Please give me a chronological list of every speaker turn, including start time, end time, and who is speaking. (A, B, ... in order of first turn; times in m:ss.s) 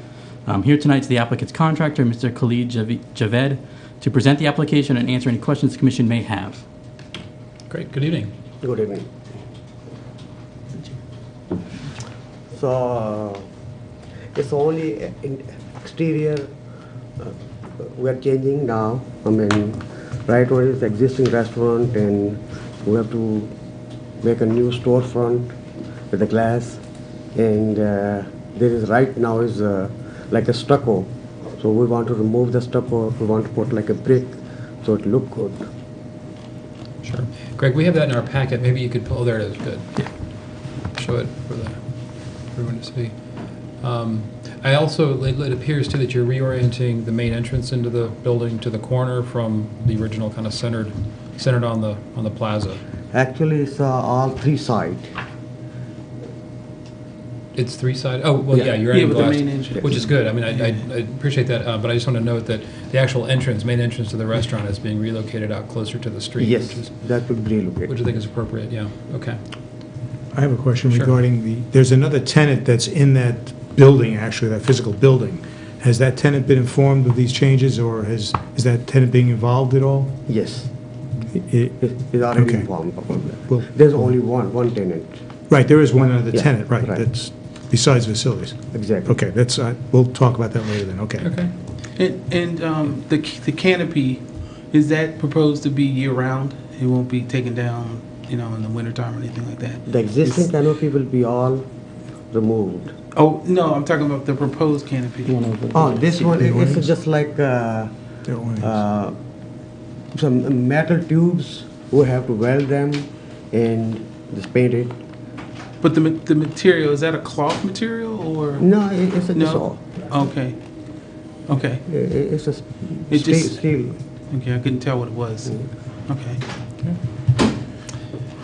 0:00.4-0:06.6 A
0:07.7-0:08.3 B
0:08.6-0:09.1 C
0:12.5-0:13.4 C
0:14.3-0:16.5 C
0:17.2-0:23.5 C
0:24.2-0:25.5 C
0:26.1-0:26.8 C
0:27.3-0:35.6 C
0:37.0-0:40.1 B
0:40.9-0:43.2 B
0:43.8-0:52.8 B
0:53.1-0:55.1 C
0:57.5-1:06.9 B
0:58.9-1:00.8 D
1:06.4-1:07.9 C
1:07.9-1:09.4 B
1:10.3-1:20.3 E
1:20.3-1:20.7 C
1:21.3-1:24.1 E
1:21.8-1:25.2 C
1:25.5-1:31.3 E
1:26.3-1:27.0 C
1:28.7-1:29.1 C
1:31.2-1:31.5 B
1:32.0-1:40.5 D
1:39.9-1:41.7 C
1:42.3-1:42.9 C
1:43.1-1:46.6 D
1:45.3-1:46.1 A
1:45.7-1:47.9 C
1:46.4-1:46.9 E
1:48.2-1:48.7 E
1:48.6-1:49.2 C
1:50.1-1:55.0 C
1:55.8-1:58.7 D
1:58.6-2:00.0 C
1:59.3-2:00.6 D
2:01.5-2:01.8 D
2:01.8-2:04.0 C
2:03.1-2:03.6 D
2:04.3-2:06.4 D